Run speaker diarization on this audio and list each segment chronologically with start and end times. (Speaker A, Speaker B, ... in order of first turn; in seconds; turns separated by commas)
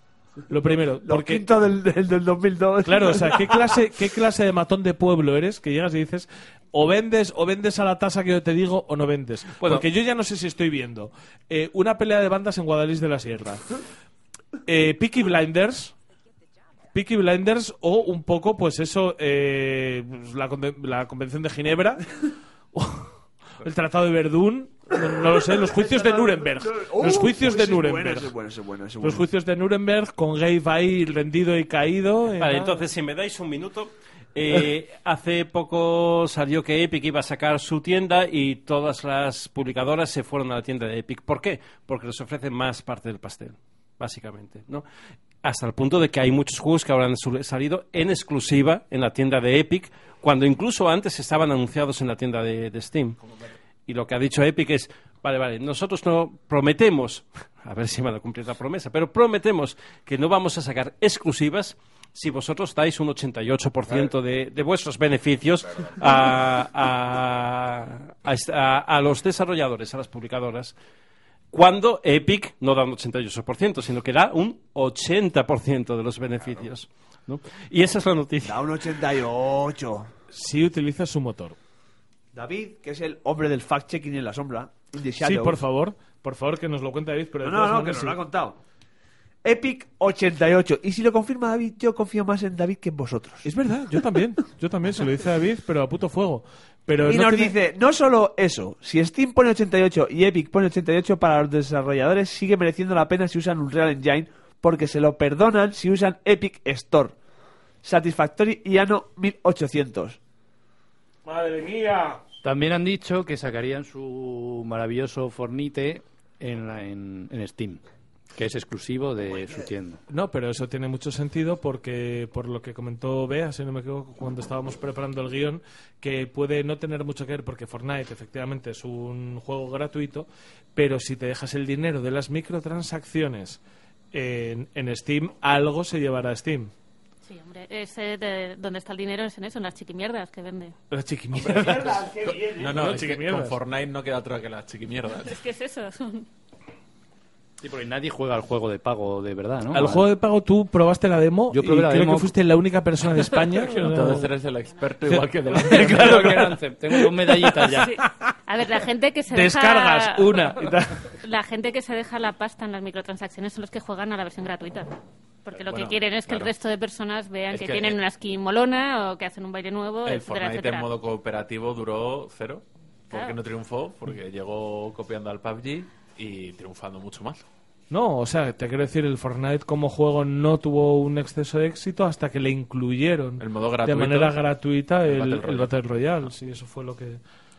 Speaker A: 0.5-1.4, Speaker B: 1.0-3.8, Speaker A: 2.8-13.7, Speaker A: 14.7-15.9, Speaker A: 16.9-22.1, Speaker A: 22.7-23.1, Speaker A: 23.6-28.3, Speaker B: 25.4-29.3, Speaker A: 29.0-32.8, Speaker C: 32.4-44.8, Speaker C: 45.4-53.2, Speaker C: 53.9-70.7, Speaker C: 71.5-78.6, Speaker B: 78.4-80.1, Speaker A: 80.3-81.6, Speaker B: 82.3-85.6, Speaker A: 85.2-88.2, Speaker B: 87.4-88.6, Speaker B: 89.4-93.5, Speaker A: 93.4-97.5, Speaker B: 97.0-107.1, Speaker B: 107.8-110.2, Speaker A: 111.2-112.2, Speaker D: 112.4-117.8, Speaker D: 118.3-120.0, Speaker A: 120.1-133.6, Speaker A: 134.1-136.7, Speaker E: 137.2-140.7, Speaker A: 140.9-142.1, Speaker F: 141.4-145.3, Speaker B: 141.4-142.9, Speaker A: 142.7-143.6, Speaker E: 145.2-146.3, Speaker D: 147.6-150.1, Speaker A: 149.7-154.3, Speaker D: 151.5-152.3, Speaker F: 153.8-156.5, Speaker A: 155.0-158.1, Speaker D: 155.7-157.9, Speaker E: 157.7-160.5, Speaker A: 159.3-161.1, Speaker E: 161.1-164.9, Speaker E: 165.4-170.9, Speaker F: 165.6-166.5, Speaker F: 167.5-168.0, Speaker F: 170.0-177.4, Speaker E: 173.1-173.4, Speaker A: 177.9-187.2, Speaker F: 183.4-184.4, Speaker F: 185.0-185.7